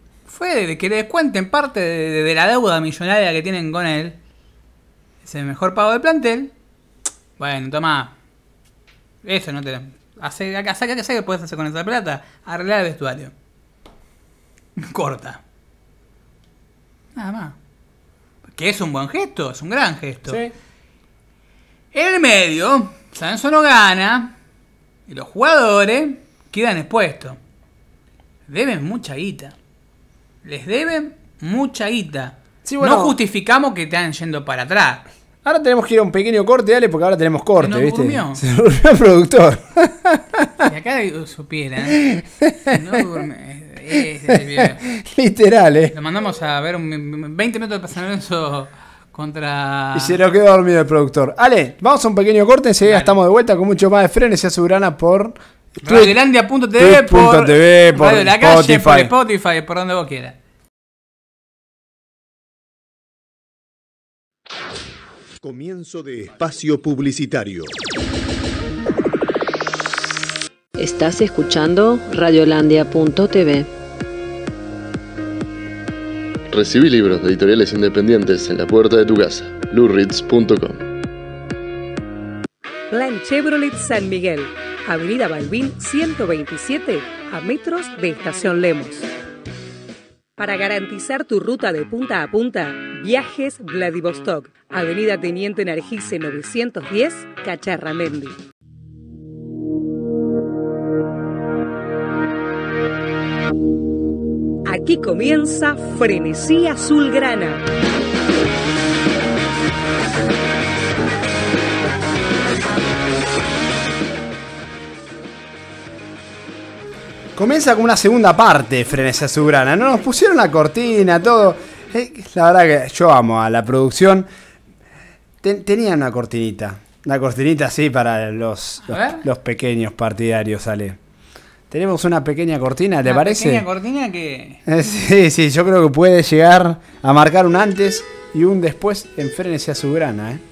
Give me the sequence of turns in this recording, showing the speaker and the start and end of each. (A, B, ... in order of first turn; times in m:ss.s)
0:00.3-0:04.2 A
0:05.2-0:06.5 A
0:07.4-0:08.1 A
0:09.2-0:13.3 A
0:14.8-0:15.4 A
0:17.2-0:17.6 A
0:18.5-0:20.4 A
0:21.9-0:24.3 A
0:25.1-0:27.4 A
0:28.5-0:29.6 A
0:30.4-0:35.0 A
0:32.6-0:33.2 B
0:35.4-0:40.6 B
0:37.6-0:38.4 A
0:40.6-0:42.0 A
0:41.9-0:43.0 B
0:42.7-0:44.8 A
0:44.3-0:45.9 B
0:45.9-0:50.2 A
0:49.9-0:56.2 B
0:52.8-0:53.1 A
0:55.8-1:00.4 A
0:56.8-0:59.1 B
1:05.4-1:07.7 C
1:10.8-1:13.7 D
1:16.5-1:20.8 E
1:22.9-1:29.1 F
1:30.4-1:38.4 F
1:44.7-1:47.6 F
1:57.4-2:04.3 B
2:05.4-2:11.0 B
2:08.9-2:09.2 A
2:11.7-2:13.6 B
2:13.0-2:14.6 A
2:14.7-2:20.4 B